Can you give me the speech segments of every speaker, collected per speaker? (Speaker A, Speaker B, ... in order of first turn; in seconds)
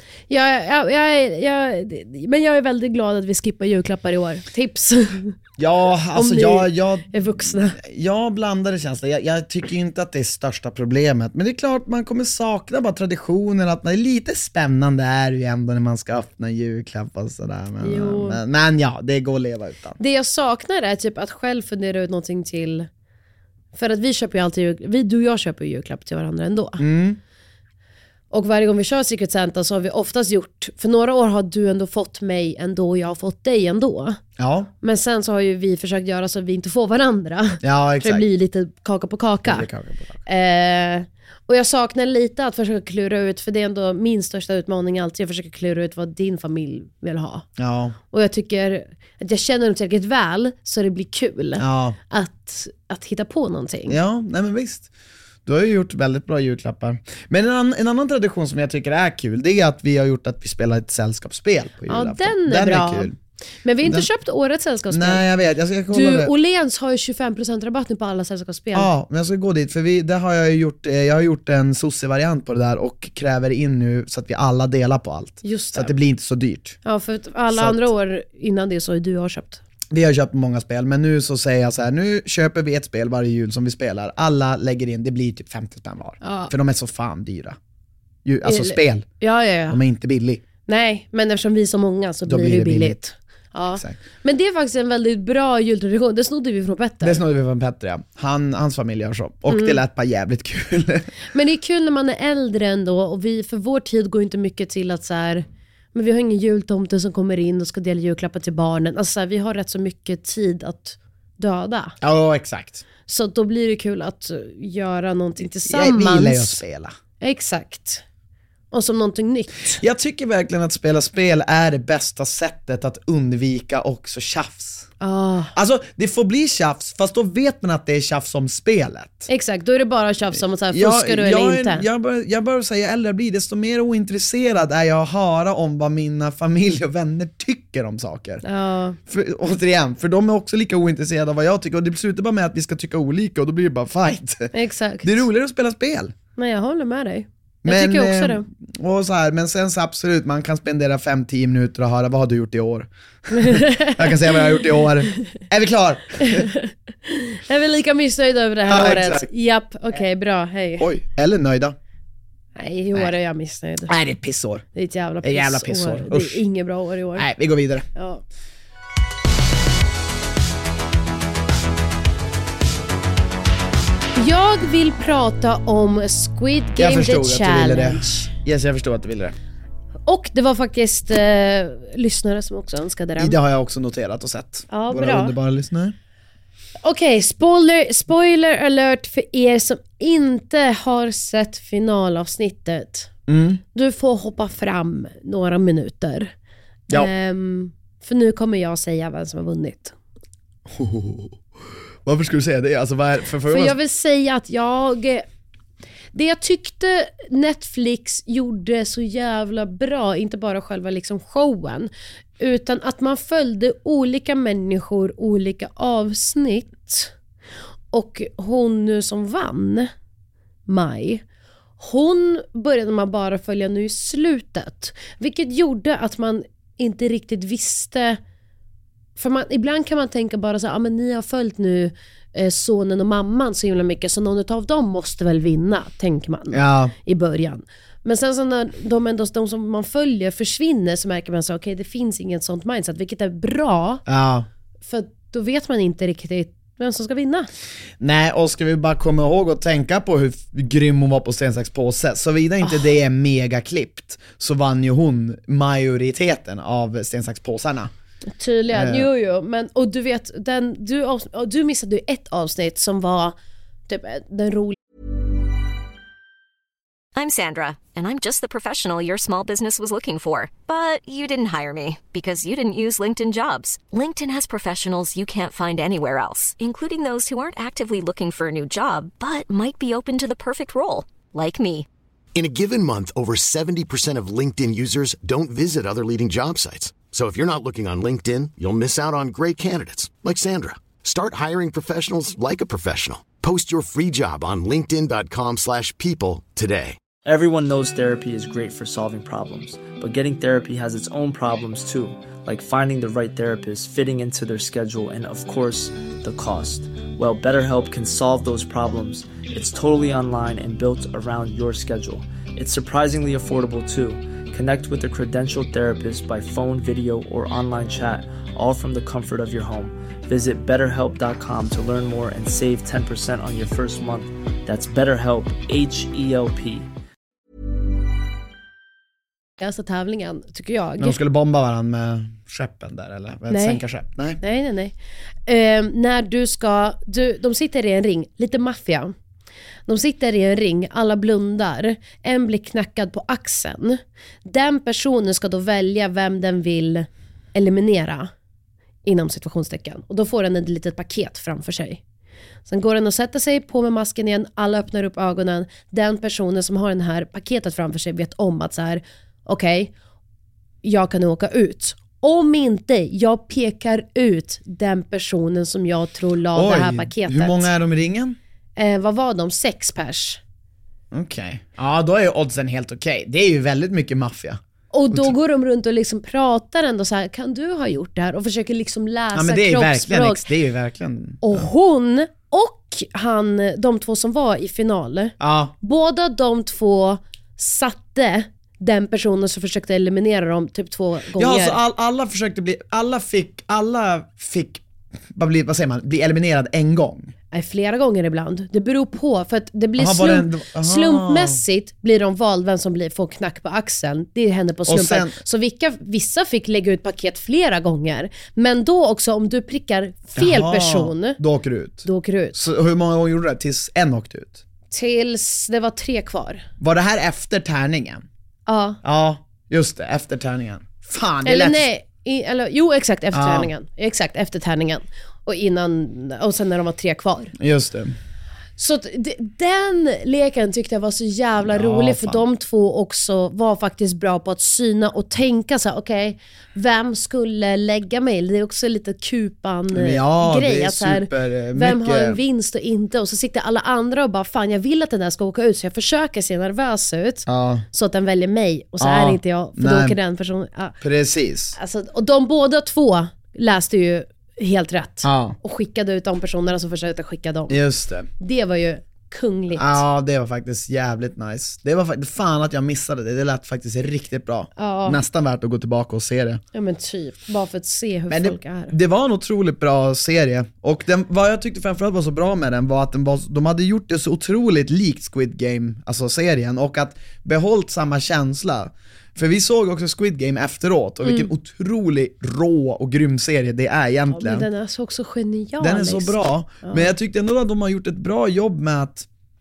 Speaker A: 0.3-5.3, 6.1-7.8, 17.8-18.4, 20.0-22.9, 23.7-26.8, 28.3-34.2, 34.8-39.7, 40.3-47.5, 48.1-54.0, 61.9-63.1, 63.6-65.2, 65.9-68.9, 75.4-75.9, 76.8-79.6, 86.2-86.5, 88.4-89.8, 90.7-97.2, 99.5-99.8, 101.3-112.0, 113.1-116.6, 117.2-118.0, 118.7-119.8, 125.0-125.5, 129.3-131.9, 138.4-139.0, 144.5-145.3, 146.4-148.4, 153.3-154.3, 156.2-160.9, 162.6-163.9, 164.8-167.3, 167.9-168.2, 174.2-178.3, 180.1-183.4, 184.7-185.4, 186.8-193.1, 193.7-196.3, 196.9-200.0, 203.5-205.2, 206.1-217.1, 217.9-219.9, 220.7-221.2, 221.8-228.2, 229.2-244.0, 244.8-247.5, 258.4-263.4, 263.9-264.8, 329.6-331.2, 333.5-333.8, 334.4-334.9, 335.5-339.1, 339.9-348.3, 349.1-352.0, 352.7-359.9, 360.8-367.7, 368.8-370.4, 374.9-380.4, 381.4-391.8, 397.5-411.4, 412.0-412.6, 414.9-416.6, 418.7-419.0, 421.4-427.5, 428.8-451.0, 451.8-457.8, 458.4-460.0, 464.8-465.2, 466.7-468.9, 481.2-481.5, 484.3-487.1
Speaker B: 5.6-20.0, 26.8-27.2, 34.4-34.7, 37.6-38.3, 39.5-40.2, 47.6-48.0, 51.6-52.0, 53.9-54.9, 55.5-63.2, 63.8-64.1, 64.9-66.3, 68.7-76.8, 77.5-77.9, 79.9-87.6, 88.2-89.1, 89.7-90.4, 92.3-93.0, 97.0-101.1, 112.0-112.8, 115.7-117.0, 119.8-124.9, 125.5-129.3, 130.7-138.4, 139.1-146.1, 147.6-156.5, 158.7-159.3, 160.8-161.8, 163.9-164.7, 165.2-166.4, 167.2-167.9, 176.8-179.3, 183.2-185.9, 193.3-193.6, 200.7-201.4, 202.0-203.8, 236.5-236.9, 244.1-244.5, 248.0-257.9, 258.7-259.1, 331.0-334.4, 366.5-368.4, 371.1-374.6, 379.3-381.7, 385.4-385.8, 391.4-394.8, 395.3-397.3, 400.0-401.6, 404.9-405.4, 410.4-414.6, 416.8-418.2, 419.0-421.9, 423.3-423.7, 427.6-428.1, 431.6-432.4, 439.9-442.4, 447.5-447.9, 449.0-450.2, 451.0-451.8, 455.2-455.6, 457.7-458.3, 459.8-466.6, 468.3-484.7, 485.8-489.3
Speaker C: 267.1-281.9
Speaker D: 282.4-297.0
Speaker E: 297.2-326.9